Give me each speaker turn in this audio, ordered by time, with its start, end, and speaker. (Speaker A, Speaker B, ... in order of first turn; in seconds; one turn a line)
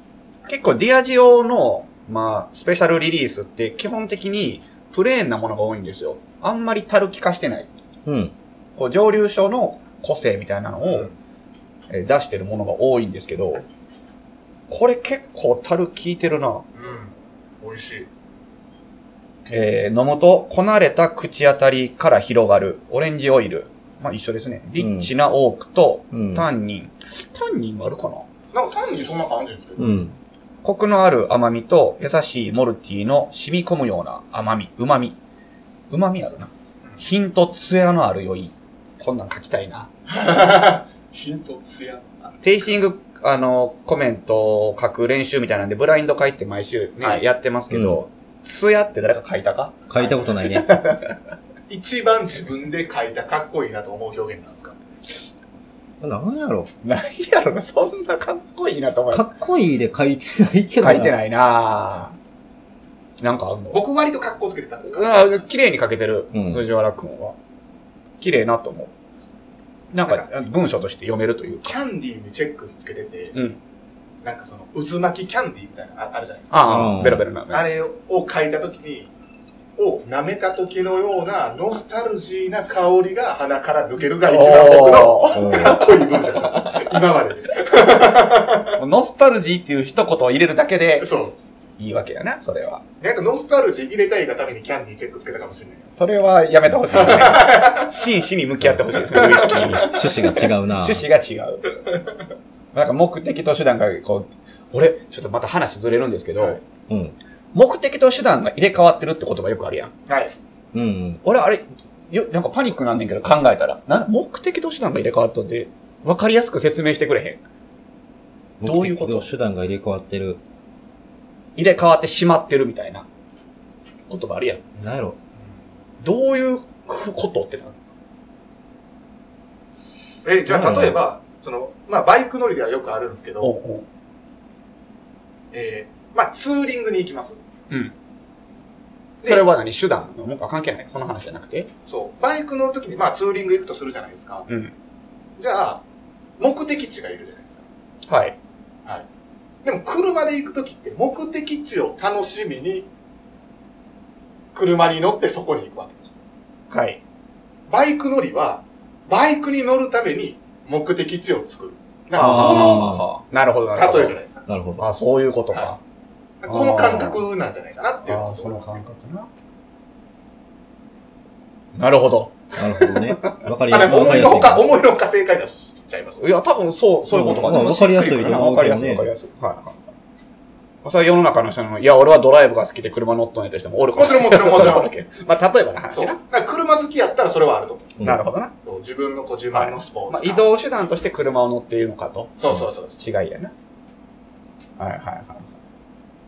Speaker A: 0.5-7.7
Speaker B: 8.1-8.3
Speaker A: 8.8-11.1
Speaker C: 10.8-11.1
Speaker A: 11.9-13.7
Speaker A: 14.7-16.7
Speaker C: 16.8-18.1
Speaker A: 19.5-28.3
Speaker B: 24.8-25.1
Speaker B: 26.1-26.5
Speaker C: 28.5-30.0
Speaker B: 29.8-30.1
Speaker A: 30.6-35.2
Speaker A: 35.9-39.9
Speaker C: 40.1-42.4
Speaker A: 42.4-49.8
Speaker B: 47.7-48.0
Speaker B: 49.9-50.7
Speaker C: 50.0-50.2
Speaker A: 50.4-51.2
Speaker C: 51.7-54.8
Speaker B: 56.0-56.7
Speaker A: 56.8-59.3
Speaker B: 59.1-61.2
Speaker A: 60.8-62.2
Speaker A: 63.2-63.8
Speaker C: 63.7-65.5
Speaker A: 64.9-67.4
Speaker B: 66.3-66.7
Speaker A: 68.2-68.9
Speaker A: 69.9-71.8
Speaker C: 71.6-73.3
Speaker A: 73.3-73.6
Speaker C: 74.2-76.9
Speaker A: 76.5-77.6
Speaker B: 76.7-77.3
Speaker C: 77.5-79.1
Speaker C: 79.8-88.8
Speaker A: 84.3-86.9
Speaker B: 85.3-85.8
Speaker A: 88.8-91.1
Speaker C: 91.0-91.4
Speaker A: 91.8-92.8
Speaker C: 93.0-95.9
Speaker A: 95.9-101.8
Speaker C: 96.9-97.9
Speaker C: 99.1-99.9
Speaker B: 99.7-101.1
Speaker A: 102.7-106.6
Speaker B: 106.9-107.2
Speaker A: 107.5-109.9
Speaker C: 110.1-110.3
Speaker B: 110.7-111.2
Speaker A: 111.2-117.4
Speaker B: 118.6-120.4
Speaker A: 118.6-119.3
Speaker A: 121.6-123.1
Speaker A: 124.1-124.6
Speaker B: 124.8-125.2
Speaker A: 126.0-127.8
Speaker C: 130.2-133.6
Speaker B: 130.5-131.0
Speaker A: 133.4-133.9
Speaker C: 135.5-137.4
Speaker A: 139.2-141.7
Speaker C: 141.9-144.5
Speaker A: 144.5-144.7
Speaker C: 145.4-145.8
Speaker C: 146.4-147.6
Speaker A: 148.1-148.4
Speaker C: 149.6-152.9
Speaker C: 154.5-156.1
Speaker A: 156.7-157.0
Speaker C: 157.7-162.9
Speaker B: 162.2-163.1
Speaker A: 162.2-164.2
Speaker C: 163.8-164.5
Speaker B: 164.5-164.8
Speaker A: 164.8-165.8
Speaker C: 166.4-168.7
Speaker A: 166.5-167.2
Speaker A: 168.1-169.3
Speaker A: 171.8-173.4
Speaker B: 172.6-174.7
Speaker C: 173.7-176.2
Speaker A: 176.2-179.8
Speaker B: 177.1-179.1
Speaker A: 180.8-186.2
Speaker C: 184.0-184.9
Speaker C: 185.9-188.1
Speaker A: 188.0-188.5
Speaker C: 188.7-190.5
Speaker A: 189.5-193.5
Speaker C: 192.4-193.0
Speaker A: 194.8-195.5